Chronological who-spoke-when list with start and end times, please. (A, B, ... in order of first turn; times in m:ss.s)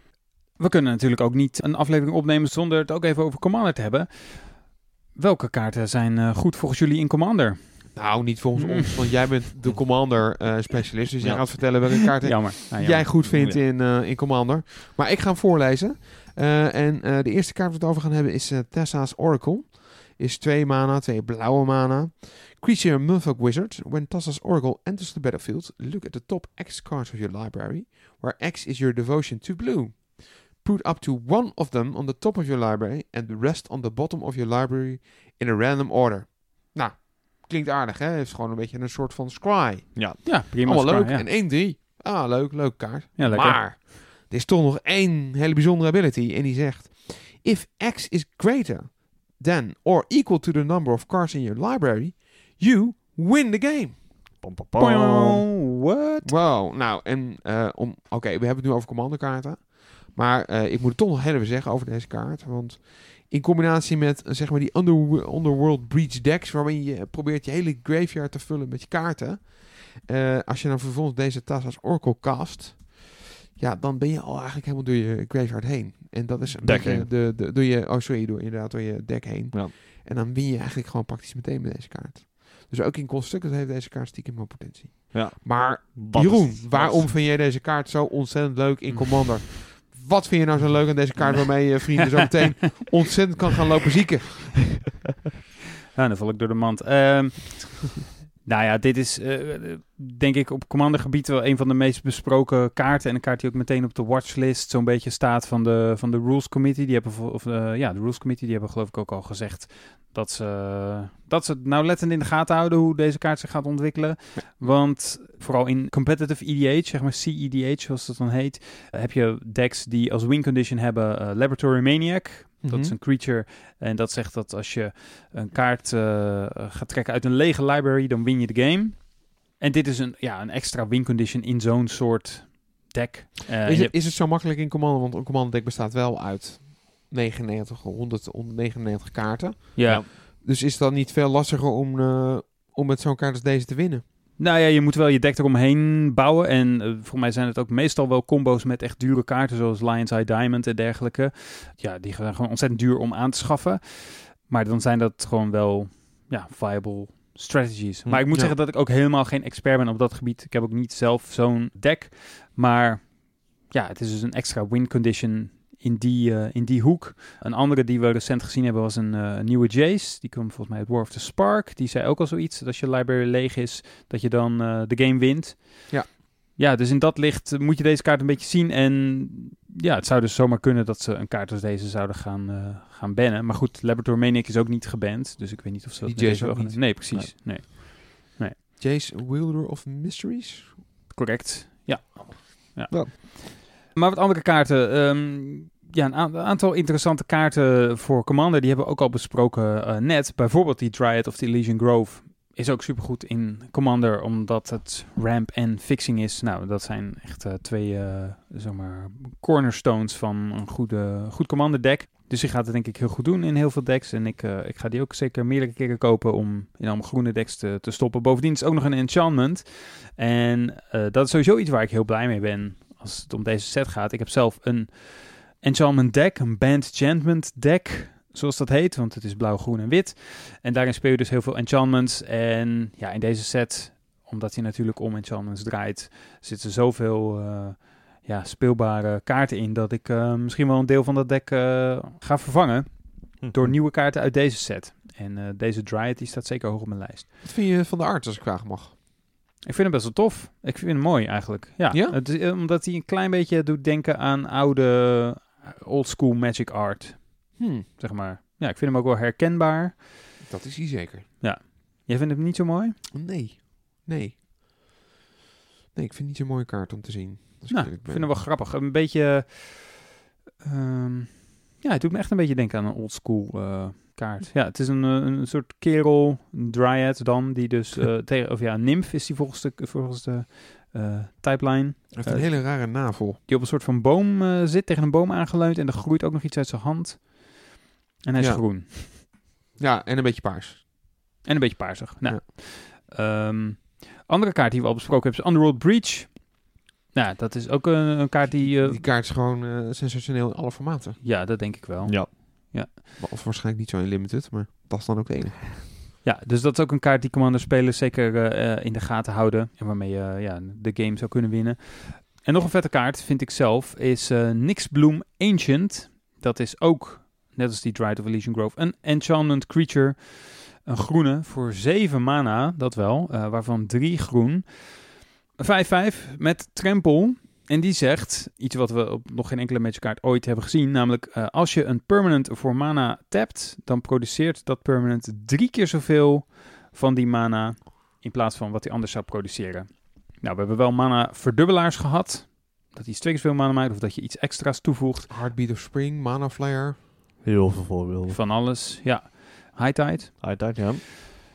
0:00.6-0:09.3 A
0:07.9-0:54.2 B
0:11.2-0:11.8 C
0:12.2-0:13.1 A
0:13.3-0:13.6 C
0:39.9-0:40.2 C
0:40.2-0:41.2 A
0:43.2-0:43.6 A
0:54.4-0:55.4 C
0:54.8-0:56.3 A
0:56.2-1:34.9 B
1:16.6-1:17.1 C
1:25.1-1:27.1 C
1:28.9-1:29.2 A
1:35.9-2:13.9 A
1:54.4-1:54.7 B
2:02.6-2:02.9 B
2:13.6-2:24.0 B
2:19.8-2:20.0 A
2:24.4-3:08.6 A
3:06.0-3:06.9 B
3:08.8-3:10.7 B
3:11.1-4:07.3 A
4:03.4-4:03.7 C
4:07.4-4:08.9 B
4:09.6-4:20.2 A
4:11.9-4:12.2 B
4:17.6-4:17.8 B
4:20.4-4:21.3 B
4:21.4-4:23.0 A
4:23.1-4:24.4 B
4:25.9-4:28.3 B
4:27.7-4:49.1 A
4:42.1-4:43.4 B
4:48.4-4:50.8 B
4:51.4-4:59.0 A
4:58.8-5:01.2 B
5:01.2-5:02.9 A
5:02.0-5:02.3 C
5:03.2-5:05.8 B
5:06.2-5:45.3 A
5:45.3-5:47.0 B
5:47.4-5:48.4 C
5:48.3-5:50.9 A
5:50.4-5:51.0 C